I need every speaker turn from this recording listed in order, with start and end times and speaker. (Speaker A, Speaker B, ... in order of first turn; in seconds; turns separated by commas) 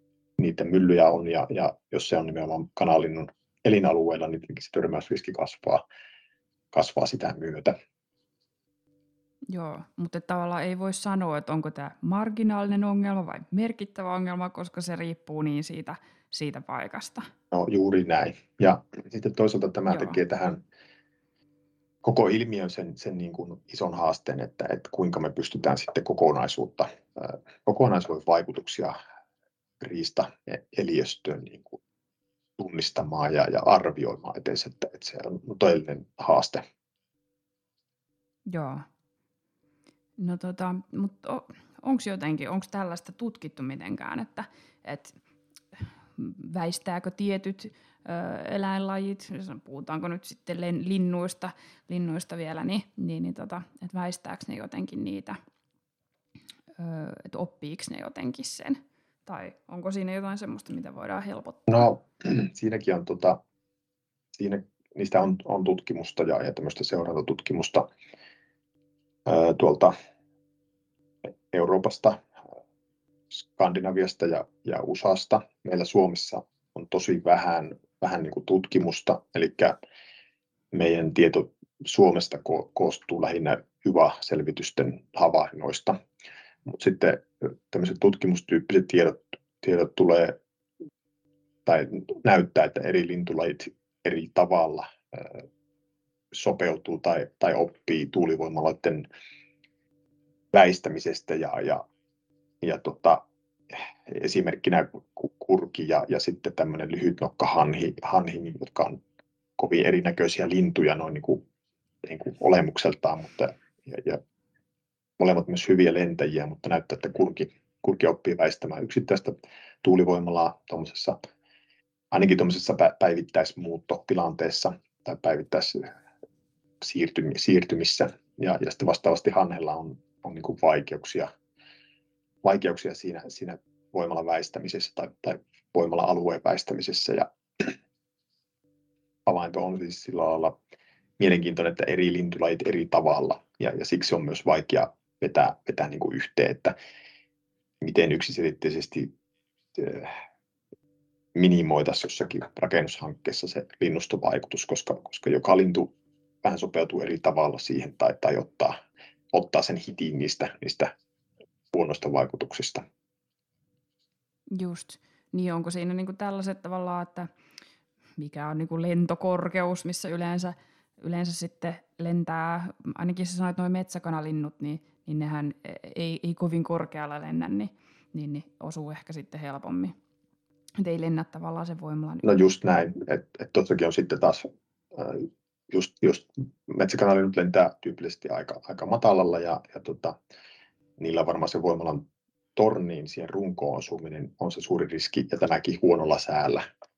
Speaker A: 0.4-5.8, Speaker A: 6.7-7.7, Speaker B: 9.5-17.3, Speaker A: 17.5-20.6, Speaker B: 19.9-20.2, Speaker A: 22.0-29.0, Speaker A: 29.8-31.8, Speaker A: 32.6-36.6, Speaker B: 38.5-38.9, Speaker B: 40.2-45.1, Speaker B: 45.7-55.4, Speaker B: 56.8-61.9, Speaker A: 61.7-63.4, Speaker A: 64.4-67.9, Speaker A: 69.3-69.9, Speaker A: 71.5-72.2, Speaker A: 73.3-79.8, Speaker A: 80.7-86.0, Speaker A: 86.7-90.4, Speaker A: 91.7-95.5, Speaker A: 96.3-99.1, Speaker A: 100.5-101.8, Speaker A: 102.6-109.0, Speaker A: 109.6-111.4, Speaker A: 112.0-114.2, Speaker A: 115.2-121.2, Speaker A: 122.1-125.9, Speaker A: 126.8-131.3, Speaker A: 132.4-137.8, Speaker A: 139.3-140.6, Speaker A: 141.2-146.7, Speaker A: 147.8-149.1, Speaker A: 149.8-150.1, Speaker A: 151.3-155.9, Speaker A: 156.4-160.9, Speaker A: 161.7-162.8, Speaker B: 164.5-167.3, Speaker B: 168.2-179.9, Speaker B: 180.8-182.2, Speaker A: 182.2-190.2, Speaker A: 191.0-192.0, Speaker A: 192.6-196.7